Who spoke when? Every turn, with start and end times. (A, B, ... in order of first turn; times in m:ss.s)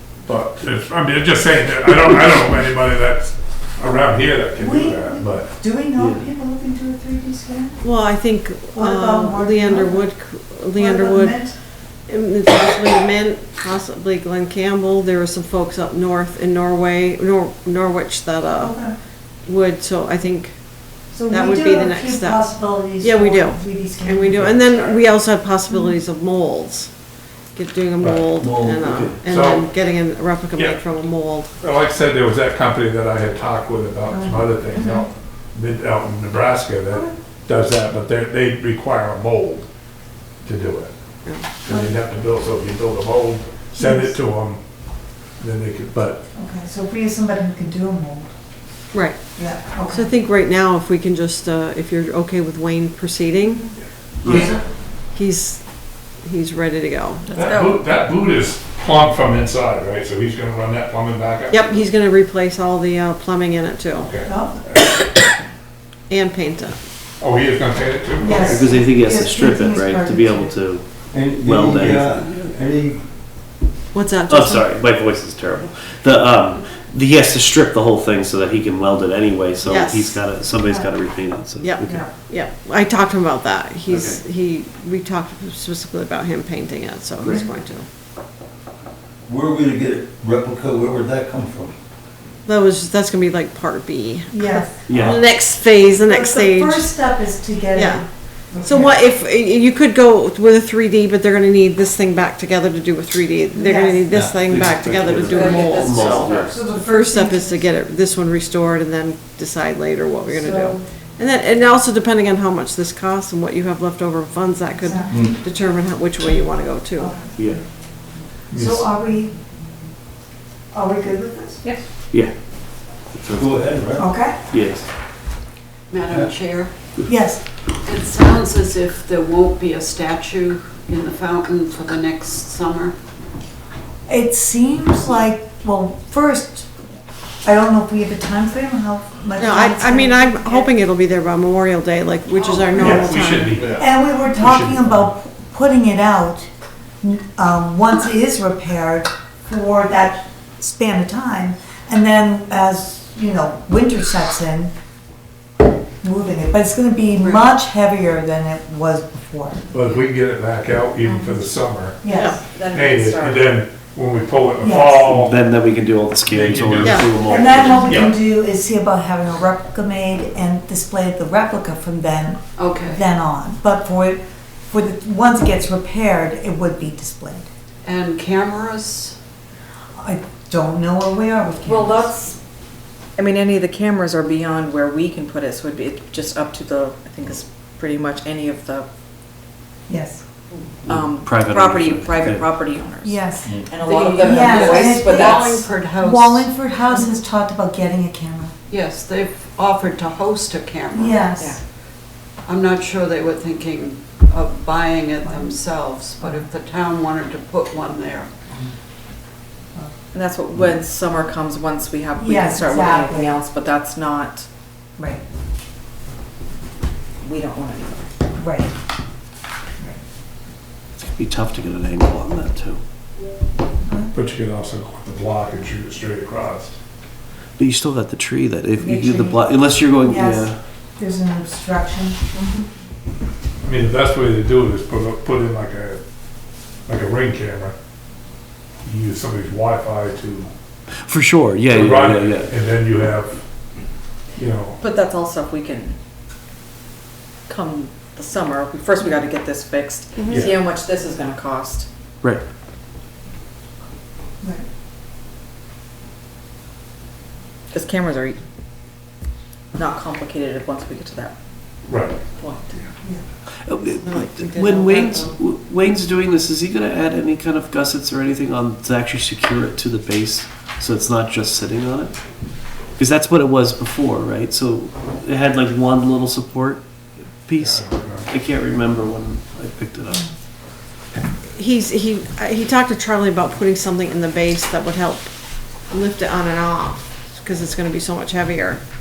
0:00.2-0:05.5 A
0:04.6-0:07.9 B
0:06.0-0:06.3 C
0:07.8-0:27.0 D
0:08.7-0:10.2 B
0:10.7-0:11.6 B
0:18.5-0:19.0 B
0:21.1-0:25.0 B
0:25.7-0:26.0 B
0:27.5-0:31.5 D
0:28.0-0:28.3 A
0:28.4-0:29.2 E
0:29.2-0:29.7 A
0:31.6-0:39.7 A
0:34.1-0:35.0 B
0:40.4-0:46.2 A
0:41.7-0:42.0 B
0:43.8-0:44.2 B
0:46.3-0:48.4 B
0:48.9-0:55.7 D
0:49.4-0:50.1 B
0:54.2-0:54.5 C
0:54.3-0:54.6 F
0:56.2-0:57.4 D
0:57.3-1:01.8 A
0:57.4-0:57.8 G
1:01.5-1:04.1 D
1:04.0-1:04.9 A
1:04.2-1:04.6 B
1:06.1-1:06.8 D
1:07.2-1:08.6 A
1:08.2-1:10.6 B
1:08.4-1:12.3 C
1:11.1-1:13.0 E
1:13.9-1:14.7 D
1:14.3-1:22.1 C
1:19.6-1:20.2 D
1:21.6-1:27.9 D
1:23.9-1:24.2 C
1:29.3-1:31.8 E
1:32.4-1:36.9 D
1:34.3-1:34.8 B
1:34.9-1:35.2 C
1:35.8-1:39.1 B
1:37.7-1:57.2 D
1:43.5-1:44.1 B
1:44.1-1:45.4 E
1:44.5-1:46.5 C
1:45.3-1:46.6 F
1:46.5-1:47.6 B
1:50.3-1:50.8 B
1:54.8-1:55.3 B
1:57.0-1:57.6 B
1:57.4-1:57.6 C
1:58.5-1:58.9 A
1:58.5-1:59.4 B
2:00.7-2:01.8 B
2:03.1-2:03.9 C
2:03.3-2:04.1 E
2:04.0-2:04.4 B
2:04.5-2:04.9 C
2:05.9-2:06.7 F
2:07.1-2:07.4 B
2:07.7-2:13.0 F
2:14.1-2:16.7 B
2:17.4-2:20.6 B
2:19.4-2:23.6 D
2:22.3-2:23.0 F
2:22.8-2:26.5 B
2:22.8-2:25.1 A
2:27.0-2:34.7 B
2:36.0-2:39.7 B
2:37.2-2:37.5 F
2:39.7-2:42.0 A
2:41.0-2:41.4 G
2:42.0-2:42.4 B
2:42.1-2:42.4 D
2:42.2-2:43.6 G
2:42.7-2:45.4 A
2:44.6-2:45.1 B
2:45.0-2:48.1 C
2:46.3-2:48.2 A
2:47.3-2:57.5 B
2:52.6-2:53.0 F
2:57.8-2:59.2 F
3:00.0-3:02.2 B
3:01.6-3:02.4 G
3:03.2-3:08.9 G
3:09.9-3:10.2 B
3:10.8-3:15.7 G
3:10.9-3:12.5 C
3:13.0-3:13.6 B
3:13.4-3:13.7 E
3:13.7-3:16.7 F
3:14.2-3:18.5 B
3:18.7-3:21.4 F
3:20.9-3:21.6 B
3:22.4-3:28.3 F
3:25.2-3:25.6 B
3:26.2-3:26.5 B
3:30.1-3:34.5 G
3:32.2-3:33.4 B
3:35.0-3:35.2 B
3:37.2-3:38.0 G
3:38.4-3:38.7 B
3:41.0-3:42.8 C
3:43.9-3:44.1 B
3:44.1-3:46.8 A
3:47.6-3:50.6 C
3:48.8-3:52.2 B
3:52.4-3:52.6 G
3:53.6-3:56.0 A
3:56.9-3:57.7 A
3:58.8-4:00.5 A
4:01.0-4:02.5 C
4:01.7-4:03.5 A
4:04.4-4:04.8 A
4:04.8-4:06.0 G
4:07.5-4:11.9 G
4:10.2-4:10.5 D
4:17.7-4:18.4 G
4:19.7-4:21.4 G
4:21.8-4:22.2 A
4:22.3-4:22.8 G
4:23.6-4:32.2 C
4:23.8-4:25.4 D
4:33.0-4:36.8 C
4:37.4-4:40.2 C
4:37.6-4:38.3 A
4:41.6-4:48.8 D